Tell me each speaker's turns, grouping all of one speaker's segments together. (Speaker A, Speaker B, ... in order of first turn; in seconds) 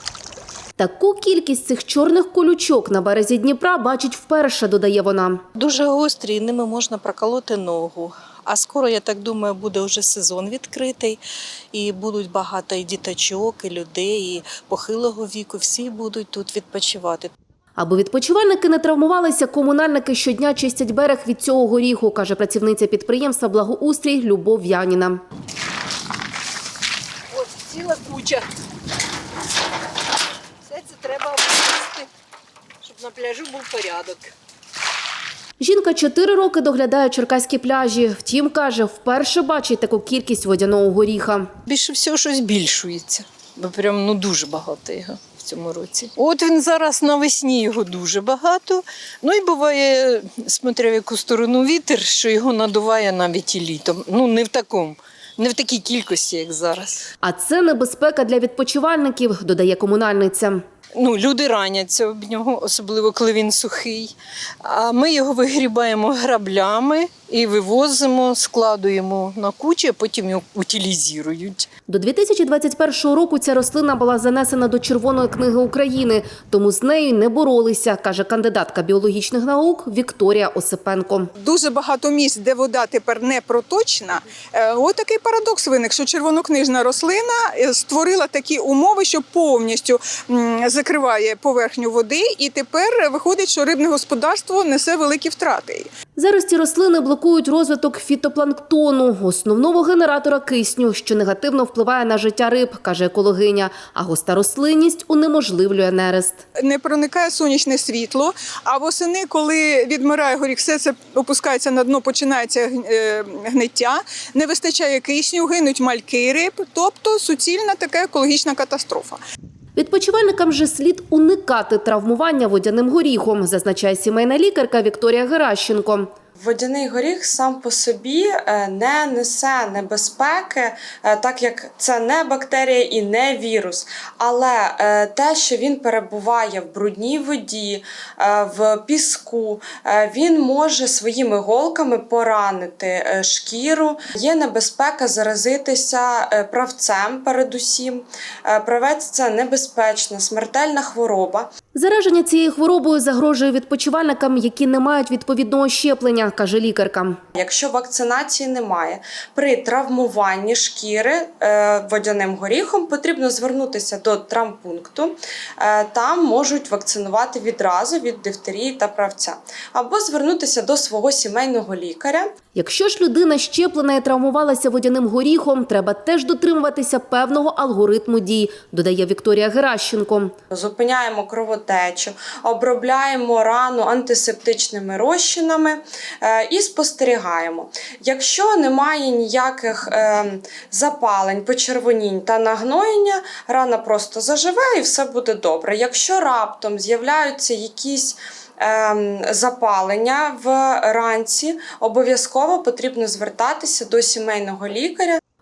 Speaker A: 0.8-5.4, 17.8-25.2, 35.6-41.5, 57.2-60.6, 71.9-81.3, 96.2-106.4, 119.7-126.1, 151.7-157.2, 172.5-180.3
Speaker B: 5.5-11.2, 11.7-17.3, 27.3-28.4, 30.6-32.1, 32.8-34.3, 41.6-57.1, 60.9-71.7
Speaker C: 81.4-95.9, 106.6-119.2
Speaker D: 126.4-151.5, 157.3-172.3, 180.5-205.2